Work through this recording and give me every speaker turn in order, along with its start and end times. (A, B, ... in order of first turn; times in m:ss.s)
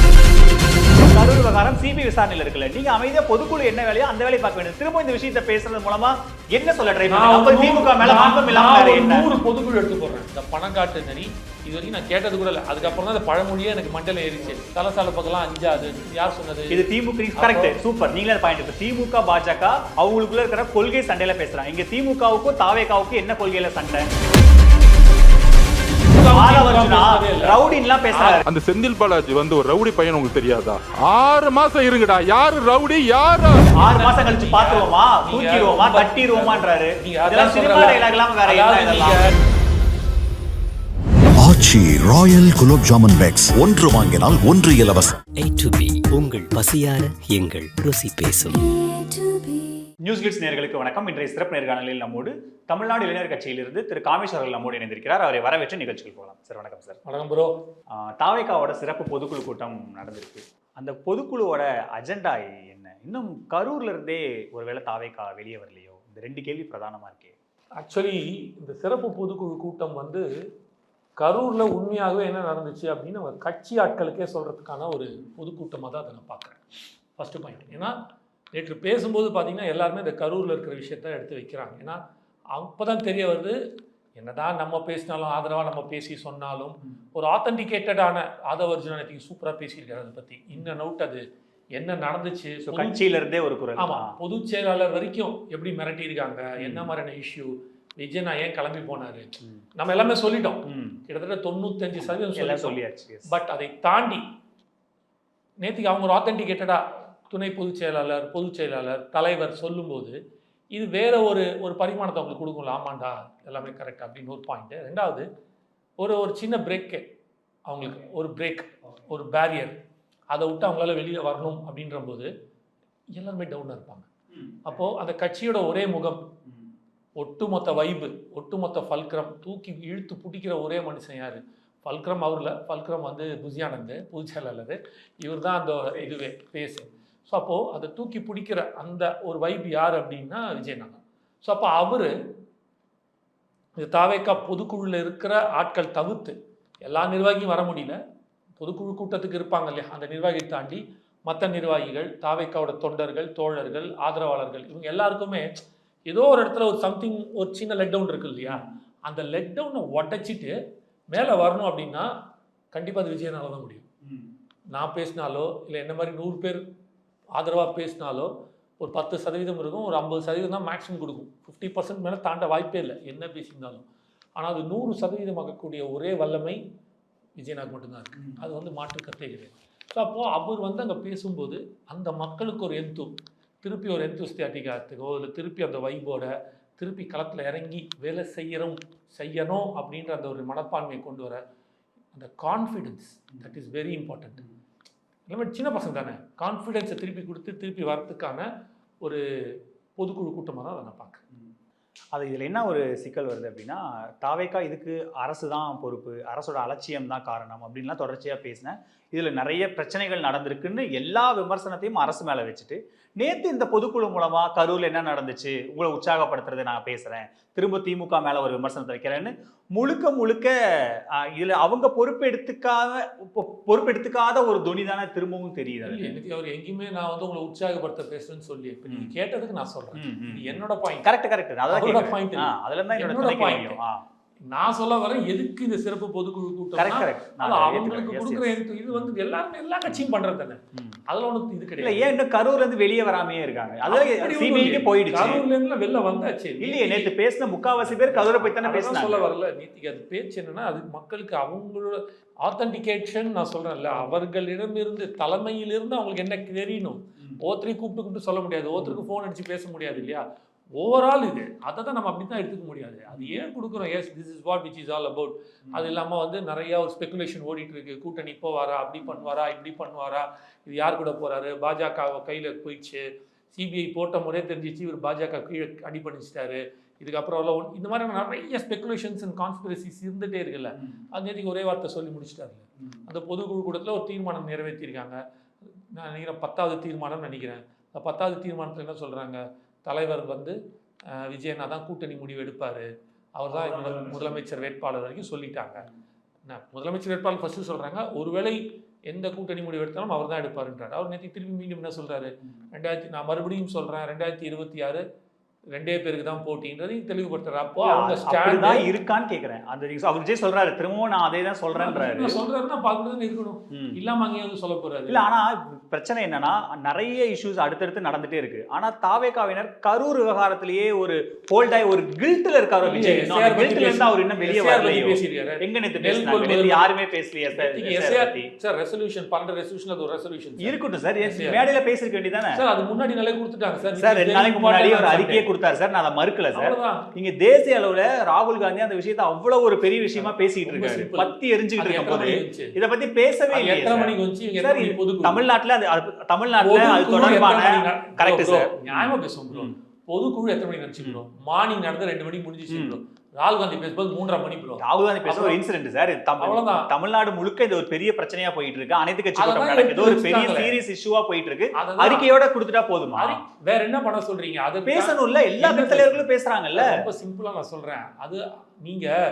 0:01.0-0:09.3 A
0:07.1-0:16.8 B
0:16.7-0:24.1 A
0:17.4-0:17.7 B
0:26.1-0:27.6 B
0:26.3-0:28.4 A
0:28.1-0:28.4 B
0:28.4-0:33.6 C
0:33.7-0:39.2 A
0:33.8-0:39.2 B
0:41.4-0:45.2 D
0:45.4-0:48.7 E
0:50.0-0:57.0 A
0:57.0-0:57.6 B
0:57.9-1:07.3 A
1:07.8-1:10.2 B
1:11.2-1:16.6 B
1:17.2-1:17.9 B
1:18.5-1:22.0 B
1:22.5-1:23.6 B
1:24.2-1:31.2 B
1:31.7-1:33.0 B
1:32.6-1:34.1 A
1:33.8-1:44.2 B
1:36.6-1:36.9 A
1:40.6-1:41.0 A
1:42.3-1:43.3 A
1:45.6-1:50.2 B
1:50.7-1:55.3 B
1:56.0-1:57.0 B
1:57.7-1:59.8 B
2:00.3-2:02.3 B
2:03.2-2:04.1 B
2:04.3-2:04.8 A
2:04.6-2:06.3 B
2:07.2-2:22.1 B
2:15.9-2:16.2 A
2:23.8-2:28.0 B
2:28.6-2:35.4 B
2:36.1-2:40.5 B
2:38.4-2:38.7 A
2:41.1-2:42.1 B
2:42.7-2:43.8 B
2:44.7-2:46.6 B
2:47.3-2:53.8 B
2:54.4-2:56.6 B
2:57.4-3:11.4 B
3:12.1-3:14.4 B
3:15.3-3:18.5 B
3:20.0-3:21.2 B
3:22.1-3:46.1 A
3:45.8-3:51.1 B
3:48.9-3:49.1 A
3:49.9-3:54.0 A
3:51.7-3:53.8 B
3:54.5-4:02.1 B
3:56.8-3:59.1 A
4:00.7-4:01.0 A
4:01.8-4:05.4 A
4:03.9-4:07.1 B
4:06.6-4:09.3 A
4:07.8-4:20.2 B
4:13.9-4:14.2 A
4:20.8-4:45.2 B
4:23.1-4:23.4 A
4:45.9-4:50.6 B
4:51.1-4:55.8 B
4:53.5-4:54.4 A
4:56.5-5:05.0 B
5:05.7-5:08.8 B
5:07.8-5:12.4 A
5:11.7-5:15.2 B
5:13.7-5:14.0 A
5:15.1-5:28.5 A
5:22.8-5:26.9 B
5:27.5-5:31.6 B
5:30.6-5:32.6 A
5:32.5-5:35.4 B
5:34.0-5:49.7 A
5:36.5-5:37.1 B
5:40.2-5:42.7 B
5:43.5-5:45.4 B
5:46.6-5:55.6 B
5:52.7-5:53.0 A
5:54.8-6:03.4 A
5:56.4-5:56.9 B
5:59.4-6:00.8 B
6:01.8-6:02.3 B
6:03.2-6:06.2 B
6:04.8-6:07.0 A
6:06.8-6:09.1 B